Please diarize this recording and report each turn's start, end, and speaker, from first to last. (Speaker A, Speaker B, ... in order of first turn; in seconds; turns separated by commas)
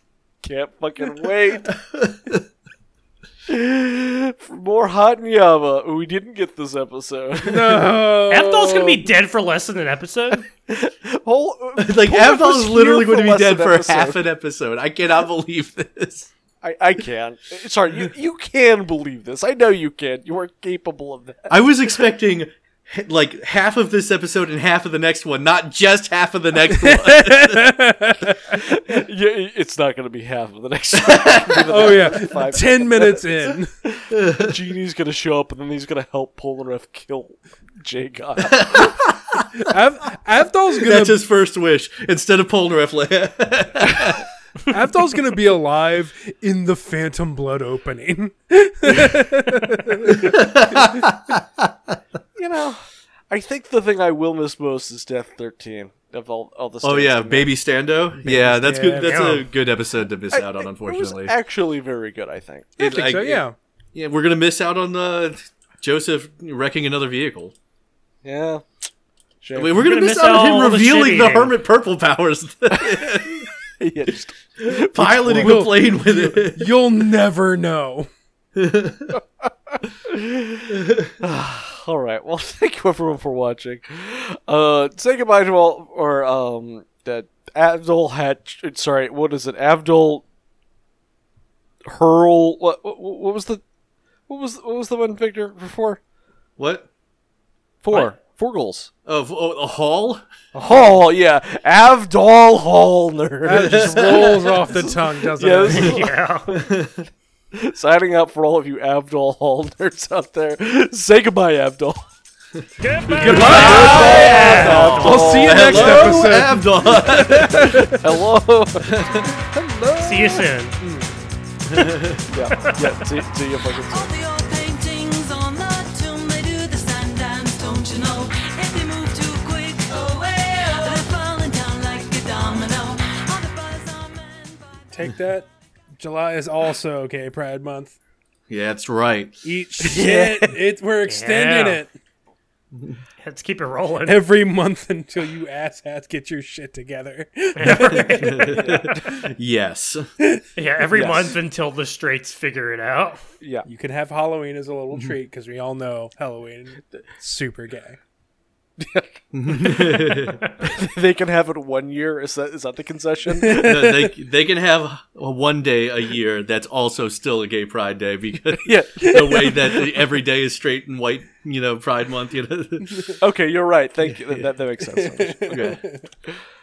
Speaker A: 0.4-1.7, Speaker B: 1.7-2.4, Speaker A: 3.5-8.1, Speaker C: 7.4-9.1, Speaker D: 8.3-10.5, Speaker A: 10.7-14.2, Speaker B: 11.8-16.3, Speaker A: 16.6-21.6, Speaker B: 21.5-27.8, Speaker C: 26.7-28.6, Speaker A: 28.6-39.0, Speaker B: 31.0-32.1, Speaker C: 31.7-33.7, Speaker B: 34.1-34.5, Speaker B: 38.4-39.6, Speaker C: 39.6-41.2, Speaker B: 40.8-44.3, Speaker C: 44.7-50.4, Speaker B: 50.0-52.0, Speaker A: 52.4-57.5, Speaker B: 56.8-61.3, Speaker C: 58.6-59.2, Speaker D: 59.0-59.5, Speaker A: 60.3-62.8, Speaker B: 62.8-67.5, Speaker C: 62.8-63.5, Speaker A: 68.2-68.7, Speaker A: 69.4-69.9, Speaker B: 69.5-73.5, Speaker D: 69.8-71.5, Speaker A: 72.8-73.1, Speaker A: 73.8-75.7, Speaker B: 74.6-76.7, Speaker C: 75.4-78.1, Speaker B: 78.6-79.2, Speaker A: 80.0-90.2, Speaker A: 91.8-93.6, Speaker A: 94.3-96.0, Speaker B: 96.6-96.9, Speaker A: 97.8-98.9, Speaker B: 99.1-100.2, Speaker A: 100.5-106.7, Speaker C: 103.5-106.0, Speaker B: 103.6-104.5, Speaker D: 105.7-106.6, Speaker B: 106.6-107.0, Speaker A: 107.5-112.0, Speaker B: 112.6-117.9, Speaker D: 112.8-115.2, Speaker C: 113.2-117.9, Speaker A: 113.2-116.3, Speaker A: 117.4-119.2, Speaker B: 118.8-119.4, Speaker C: 119.5-121.1, Speaker D: 120.0-120.8, Speaker B: 121.7-122.2, Speaker A: 122.3-124.1, Speaker D: 122.6-122.9, Speaker E: 123.9-134.9, Speaker C: 134.9-135.5, Speaker C: 136.0-137.9, Speaker B: 138.5-139.4, Speaker C: 139.4-141.9, Speaker A: 139.8-140.6, Speaker D: 141.1-141.8, Speaker B: 142.7-143.0, Speaker D: 143.2-144.2, Speaker C: 144.1-148.8, Speaker D: 147.6-149.0, Speaker B: 148.1-150.1, Speaker A: 148.6-148.8, Speaker D: 150.6-153.2, Speaker A: 150.9-151.3, Speaker A: 153.4-153.7, Speaker C: 153.7-158.0, Speaker A: 158.8-160.1, Speaker B: 159.3-160.4, Speaker A: 160.7-164.0, Speaker B: 163.5-173.2, Speaker A: 168.6-169.8, Speaker A: 173.2-175.7, Speaker C: 174.8-176.0, Speaker B: 175.5-175.8